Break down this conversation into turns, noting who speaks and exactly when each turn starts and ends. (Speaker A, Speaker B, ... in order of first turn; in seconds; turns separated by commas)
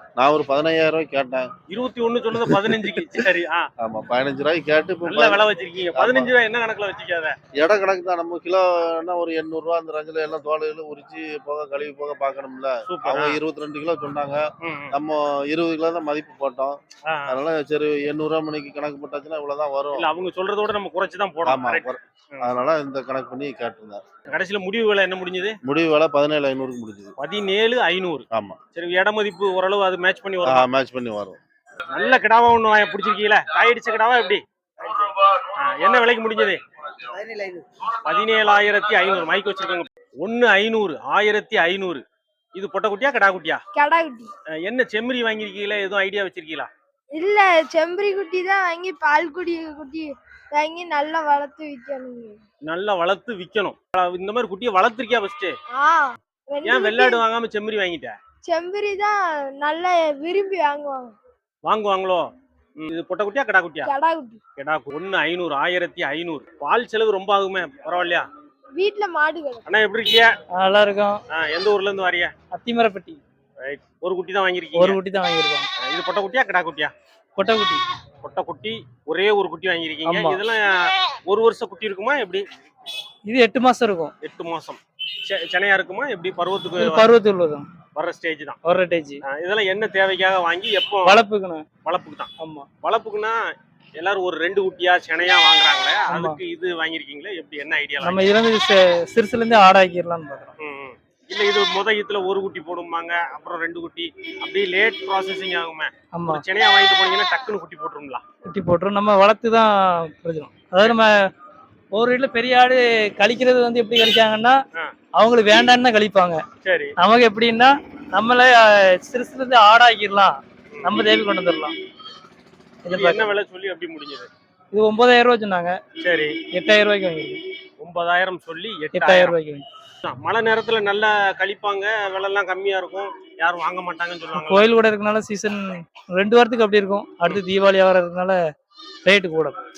Speaker A: 0.2-1.5, Speaker B: 1.7-3.7, Speaker A: 3.8-5.4, Speaker B: 5.0-7.3, Speaker A: 5.9-6.3, Speaker A: 7.6-20.0, Speaker B: 12.8-13.4, Speaker B: 14.6-14.9, Speaker B: 17.1-17.4, Speaker B: 19.9-22.6, Speaker A: 21.4-24.0, Speaker B: 24.3-25.6, Speaker A: 25.6-27.1, Speaker B: 27.2-30.7, Speaker A: 28.3-28.6, Speaker A: 30.4-31.4, Speaker B: 31.9-34.4, Speaker B: 35.6-36.6, Speaker B: 38.0-42.0, Speaker B: 42.5-43.6, Speaker C: 43.7-44.3, Speaker B: 44.6-46.7, Speaker C: 47.1-52.4, Speaker B: 52.7-55.5, Speaker C: 55.7-57.2, Speaker B: 56.6-58.1, Speaker C: 58.4-61.1, Speaker B: 61.6-62.2, Speaker B: 62.8-63.9, Speaker C: 63.8-64.4, Speaker B: 64.6-68.2, Speaker C: 68.8-69.6, Speaker B: 69.6-70.3, Speaker D: 70.6-71.2, Speaker B: 71.3-72.3, Speaker D: 72.5-73.2, Speaker B: 73.6-75.0, Speaker D: 74.7-75.7, Speaker B: 75.8-76.9, Speaker D: 77.3-77.8, Speaker B: 78.2-82.4, Speaker D: 80.0-80.4, Speaker D: 83.3-84.1, Speaker B: 84.2-87.0, Speaker D: 86.7-87.7, Speaker B: 87.9-88.6, Speaker D: 88.6-89.2, Speaker B: 89.2-91.2, Speaker D: 91.0-91.6, Speaker B: 91.8-92.3, Speaker D: 92.4-92.7, Speaker B: 92.8-93.4, Speaker B: 94.0-98.3, Speaker D: 96.1-96.4, Speaker D: 98.0-100.5, Speaker B: 100.6-108.2, Speaker D: 106.1-106.4, Speaker D: 108.5-111.1, Speaker D: 111.9-114.6, Speaker D: 115.2-116.4, Speaker B: 116.6-116.9, Speaker D: 117.0-121.7, Speaker D: 122.8-123.3, Speaker B: 122.9-124.3, Speaker D: 124.7-125.8, Speaker B: 126.0-126.4, Speaker D: 126.5-127.4, Speaker B: 127.8-129.4, Speaker D: 128.9-129.7, Speaker B: 130.0-134.7, Speaker D: 134.3-138.4, Speaker D: 139.1-139.6